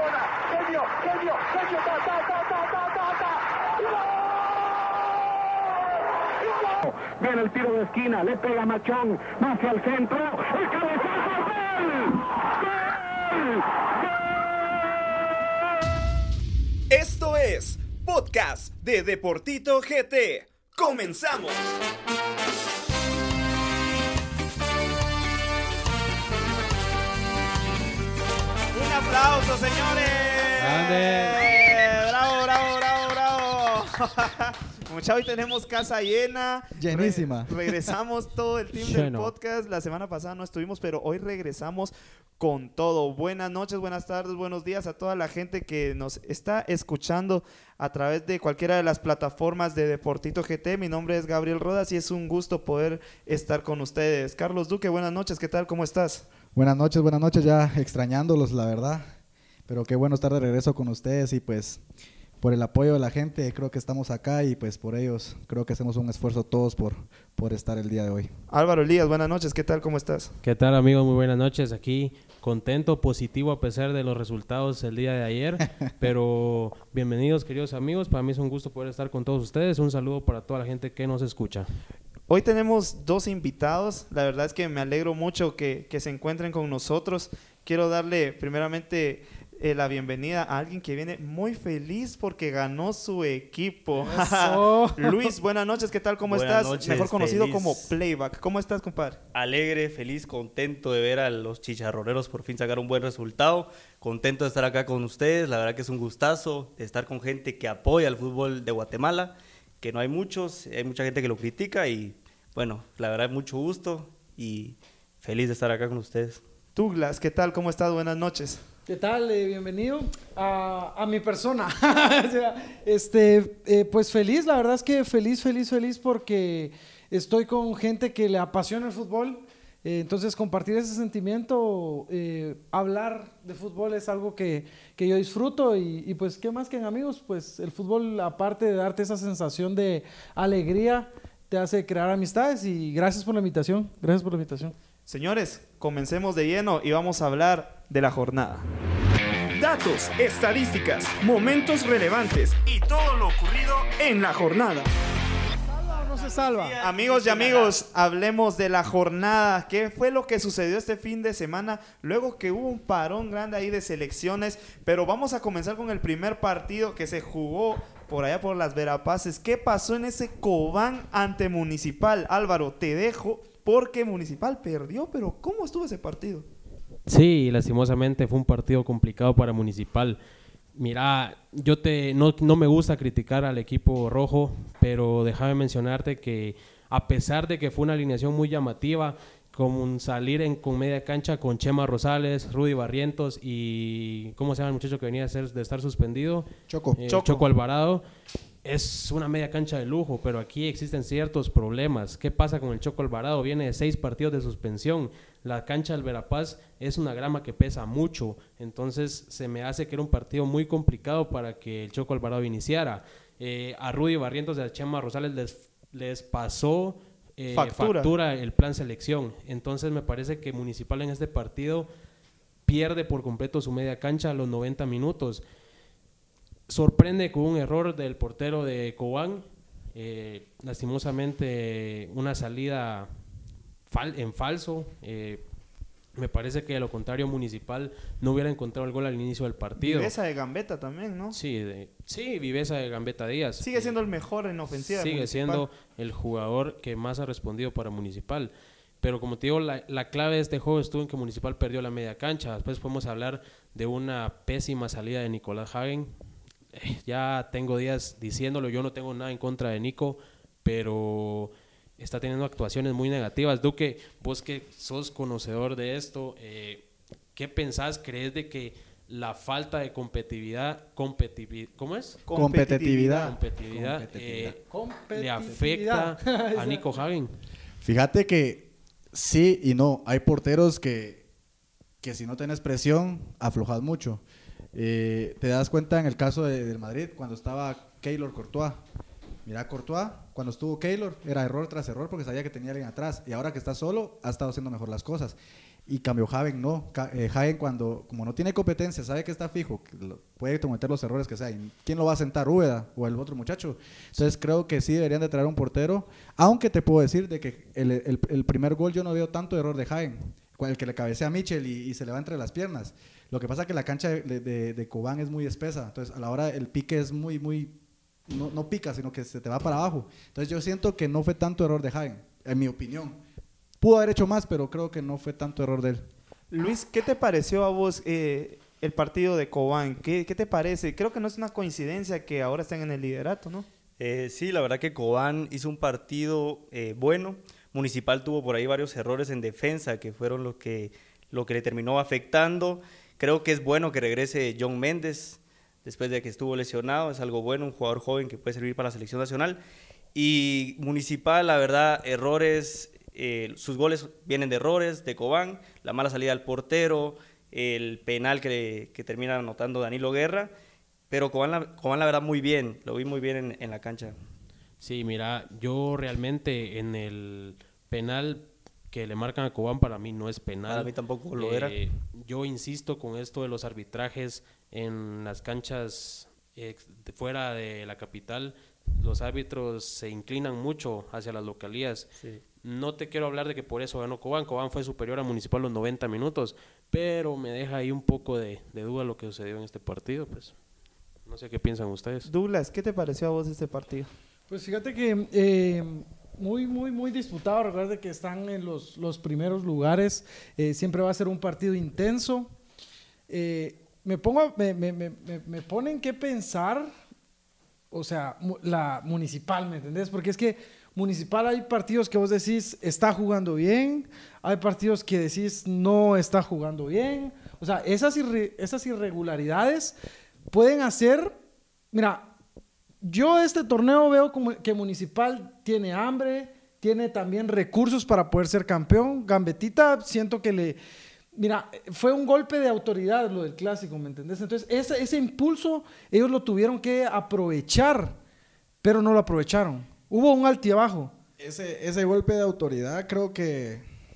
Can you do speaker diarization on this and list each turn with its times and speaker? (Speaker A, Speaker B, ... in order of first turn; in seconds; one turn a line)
Speaker A: 0.5-0.9
Speaker A: 6.6-12.0
Speaker B: 16.9-21.7
Speaker B: 28.7-56.2
Speaker C: 30.6-31.5
Speaker D: 36.7-37.5
Speaker C: 38.8-39.3
Speaker D: 56.5-59.1
Speaker D: 59.7-61.8
Speaker D: 62.4-68.3
Speaker B: 68.5-70.3
Speaker C: 70.4-81.7
Speaker B: 82.3-99.2
Speaker E: 94.0-95.3
Speaker F: 96.3-97.9
Speaker F: 99.3-116.4
Speaker B: 116.7-118.6
Speaker E: 118.9-144.7
Speaker B: 145.1-148.7
Speaker B: 149.6-154.9
Speaker E: 155.7-156.8
Speaker F: 155.9-157.8
Speaker B: 156.8-176.4
Speaker C: 177.1-180.2
Speaker C: 180.7-198.0
Speaker D: 196.7-197.0
Speaker B: 197.1-197.4
Speaker C: 198.6-221.9
Speaker B: 217.5-218.1
Speaker C: 222.7-225.4
Speaker C: 226.7-229.4
Speaker C: 229.9-233.1
Speaker C: 233.9-235.4
Speaker C: 236.2-240.1
Speaker B: 239.8-241.4
Speaker C: 241.3-243.9
Speaker B: 243.6-245.7
Speaker C: 244.7-256.1
Speaker C: 256.7-272.2
Speaker B: 272.3-273.3
Speaker D: 272.3-274.6
Speaker C: 273.1-274.6
Speaker E: 274.7-276.9
Speaker C: 275.1-277.3
Speaker D: 277.8-281.2
Speaker D: 282.0-284.2
Speaker D: 284.7-288.8
Speaker D: 289.4-317.8
Speaker D: 318.3-323.2
Speaker D: 323.8-326.1
Speaker B: 326.5-333.7
Speaker F: 334.0-349.6
Speaker F: 350.1-360.5
Speaker F: 361.1-364.1
Speaker C: 364.8-382.1
Speaker F: 370.7-371.8
Speaker C: 382.6-390.5
Speaker C: 391.3-392.3
Speaker B: 392.3-394.1
Speaker E: 394.5-402.5
Speaker E: 403.3-406.9
Speaker E: 407.9-419.9
Speaker E: 420.5-421.4
Speaker E: 421.9-422.3
Speaker E: 423.0-430.8
Speaker E: 431.3-438.2
Speaker E: 438.8-441.1
Speaker D: 441.4-443.9